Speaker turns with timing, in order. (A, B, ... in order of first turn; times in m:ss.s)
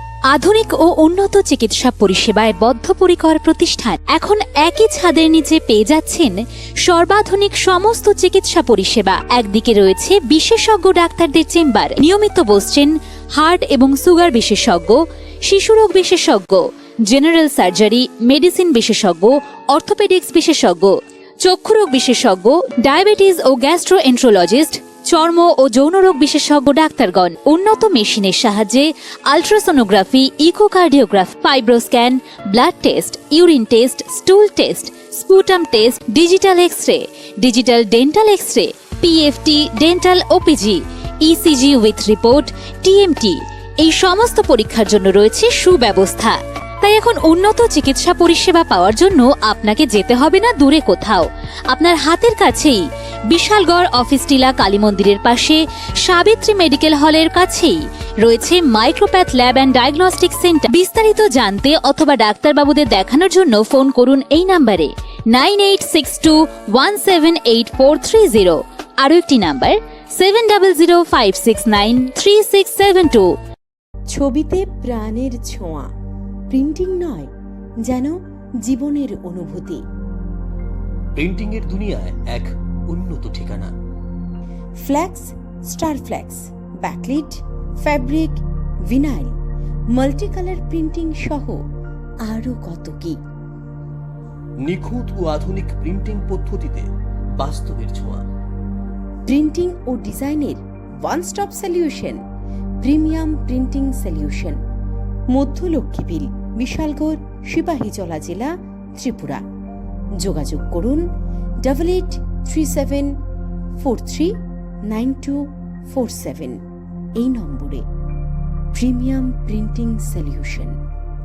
0:00.3-1:13.3 A
1:14.1-1:15.9 B
1:16.5-1:17.3 B
1:17.8-1:19.8 B
1:21.1-1:23.7 C
1:24.8-1:29.4 B
1:29.9-1:31.6 B
1:32.2-1:33.2 B
1:34.6-1:38.2 C
1:39.3-1:42.2 B
1:42.8-1:44.6 B
1:45.3-1:49.4 B
1:50.2-1:51.0 B
1:51.6-1:53.1 B
1:53.8-1:54.3 B
1:54.9-1:55.4 B
1:55.9-1:56.6 B
1:57.2-1:57.8 B
1:58.8-2:00.7 B